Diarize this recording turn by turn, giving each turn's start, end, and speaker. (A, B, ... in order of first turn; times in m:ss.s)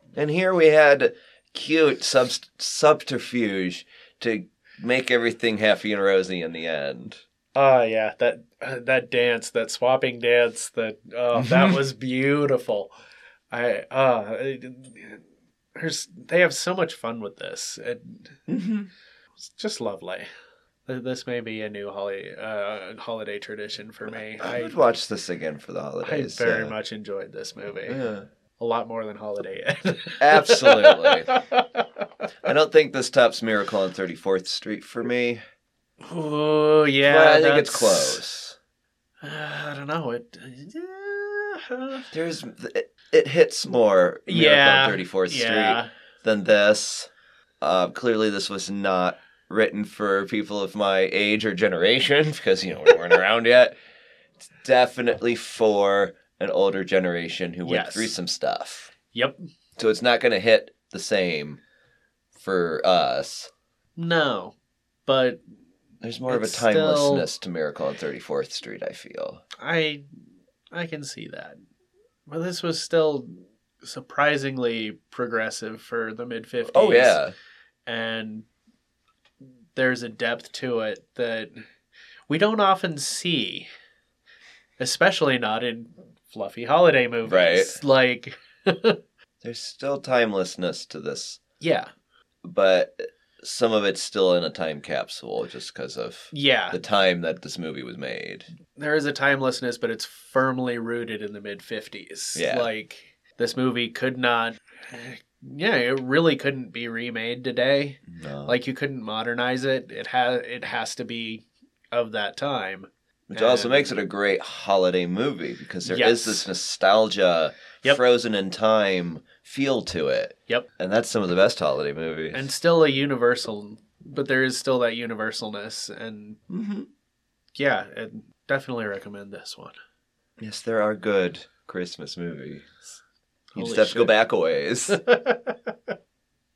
0:00.2-0:07.2 A
0:07.6-0:12.9 B
0:11.4-0:11.8 A
0:13.5-0:15.2 B
0:15.8-0:18.4 B
0:18.5-0:18.9 A
0:19.4-0:20.3 B
0:20.9-0:24.8 B
0:24.4-0:26.7 A
0:26.0-0:28.0 B
0:27.9-0:28.3 A
0:28.6-0:32.1 B
0:30.2-0:31.4 A
0:32.4-0:35.4 A
0:36.1-0:38.2 B
0:37.0-0:38.6 A
0:39.2-0:42.1 B
0:42.1-0:47.1 A
0:44.3-0:45.9 B
0:47.6-0:53.8 A
0:54.4-0:58.9 A
0:57.6-0:58.1 B
0:59.1-0:59.4 B
0:59.8-1:01.6 A
1:02.4-1:03.5 A
1:04.0-1:04.6 B
1:05.1-1:05.4 B
1:06.0-1:09.4 A
1:06.3-1:07.3 B
1:09.6-1:10.0 B
1:10.7-1:11.6 B
1:12.3-1:17.2 B
1:16.7-1:17.3 A
1:17.9-1:18.5 B
1:19.8-1:21.6 B
1:22.3-1:23.7 B
1:24.8-1:29.0 B
1:27.3-1:27.8 A
1:29.4-1:31.4 A
1:31.6-1:31.9 B
1:32.4-1:38.5 A
1:36.3-1:36.8 B
1:38.8-1:54.0 B
1:42.4-1:42.7 A
1:48.1-1:48.6 A
1:53.3-2:02.5 A
1:55.8-1:56.5 B
2:02.3-2:06.4 B
2:06.5-2:06.9 A
2:07.6-2:09.8 B
2:10.4-2:12.7 A
2:13.5-2:14.2 B
2:13.6-2:15.0 A
2:14.9-2:15.9 B